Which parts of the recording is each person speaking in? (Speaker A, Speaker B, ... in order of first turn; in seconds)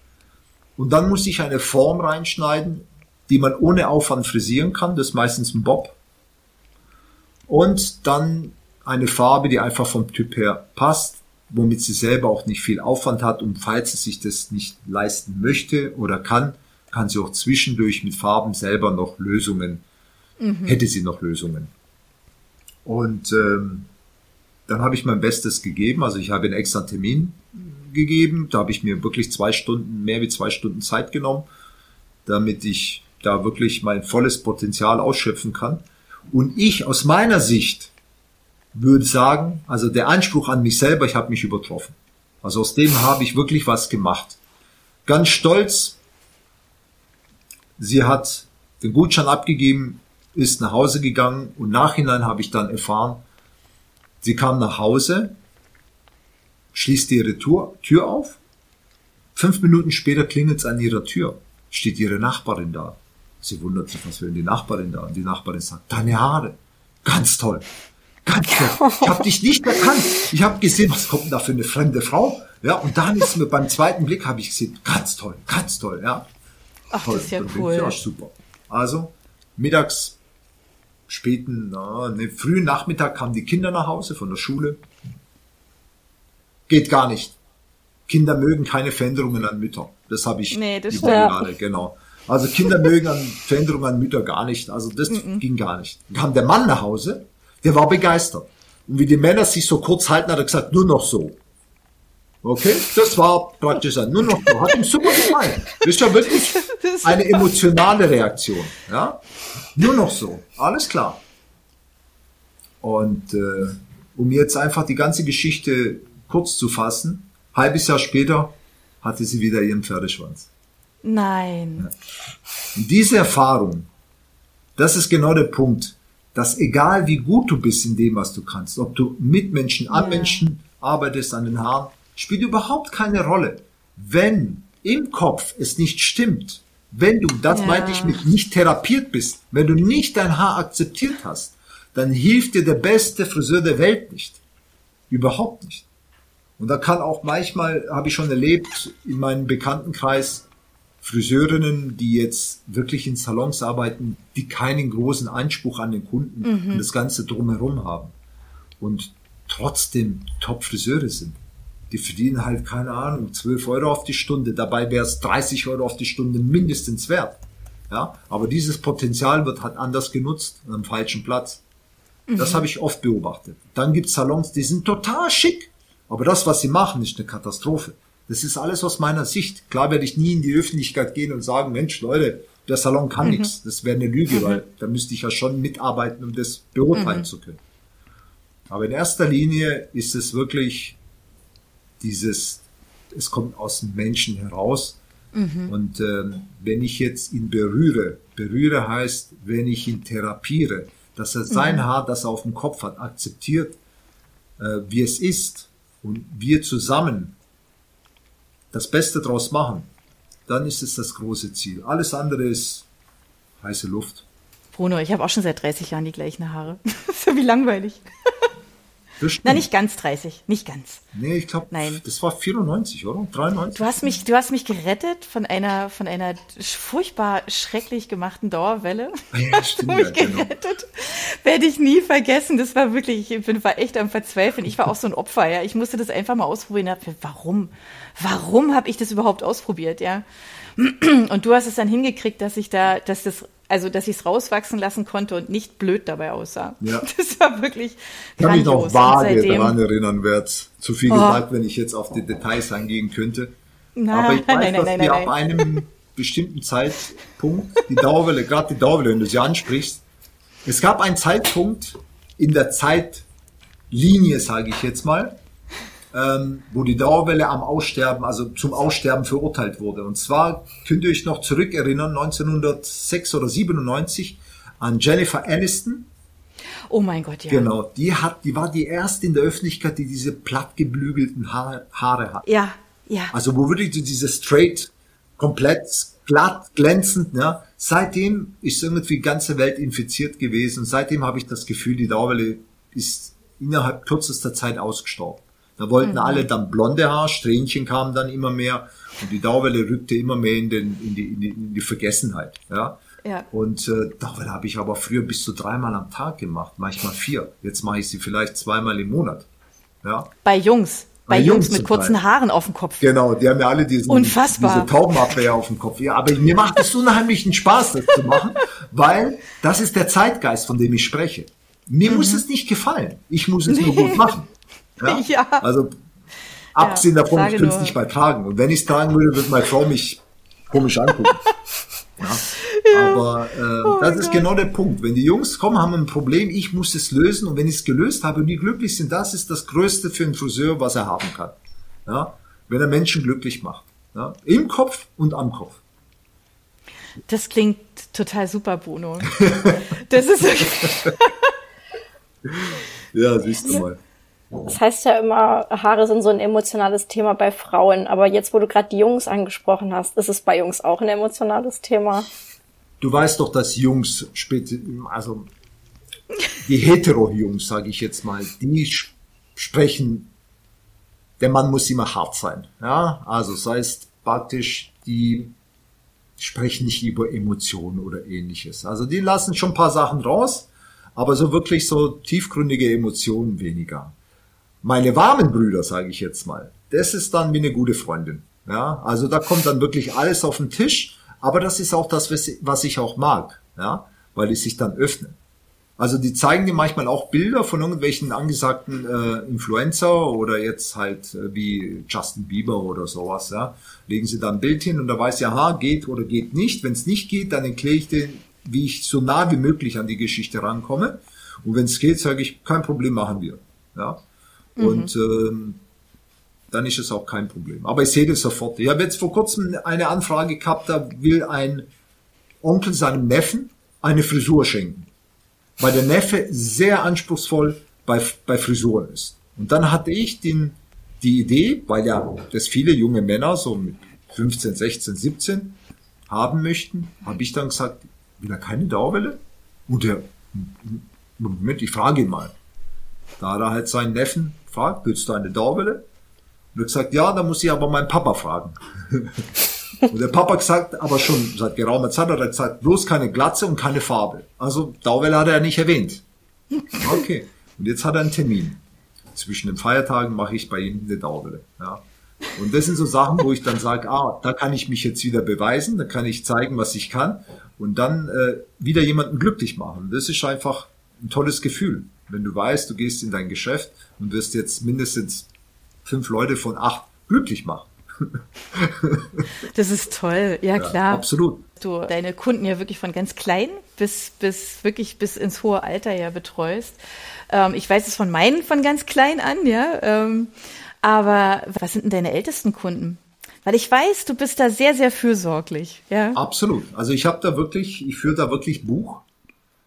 Speaker A: 0.8-6.0, 7.5-19.8, 20.6-21.7, 22.8-23.9, 24.7-31.5, 32.2-37.9, 38.7-44.4, 45.0-46.0, 47.8-53.2, 54.2-55.4, 56.7-58.4, 59.3-67.7, 68.2-76.3, 77.0-80.2, 81.1-84.8, 86.7-87.4, 88.1-101.4, 102.4-109.2, 109.7-111.2, 112.8-120.5, 122.7-123.9, 124.8-144.4, 145.1-145.8, 146.6-150.4, 151.0-158.1, 158.8-161.4, 161.9-171.6, 172.3-187.6, 188.7-191.0, 192.0-195.0, 195.7-203.8, 204.6-207.3, 208.7-209.9, 210.5-212.9, 213.6-214.2, 219.2-219.7, 221.1-224.2, 229.3-230.5, 246.8-247.1, 248.4-253.5, 254.1-260.0, 260.6-263.2, 263.9-265.4, 266.1-276.1, 277.5-282.4, 283.3-303.0, 303.5-309.5, 310.0-310.3, 311.3-312.2, 313.0-325.9, 326.7-331.5, 332.2-345.8, 349.4-349.7, 352.4-354.0, 363.0-365.5, 366.6-370.3, 371.4-375.5, 376.4-384.1, 384.8-395.4, 396.0-414.2, 414.8-415.8, 416.7-421.9, 422.6-425.1, 425.8-442.5, 443.4-446.1, 446.7-449.5, 450.1-456.2, 456.9-458.8, 459.3-475.5, 476.0-479.4, 480.8-481.6, 496.3-499.2
Speaker B: 20.4-20.8, 76.9-78.0, 90.5-91.3, 95.1-95.4, 106.6-107.5, 121.0-121.9, 129.9-130.4, 137.5-138.2, 156.4-156.8, 172.3-172.7, 183.2-183.5, 184.3-184.6, 186.9-187.3, 195.3-195.7, 201.5-201.8, 214.7-218.1, 219.4-221.0, 221.7-222.0, 223.7-240.2, 240.8-249.8, 251.1-251.4, 254.0-255.3, 276.9-277.7, 282.4-283.3, 296.0-296.4, 310.4-313.1, 314.1-315.3, 322.1-322.4, 323.7-324.2, 325.0-325.7, 326.8-327.9, 332.5-333.2, 333.8-334.4, 347.3-351.3, 414.8-415.1, 479.7-496.4
Speaker C: 91.0-91.3, 354.6-362.3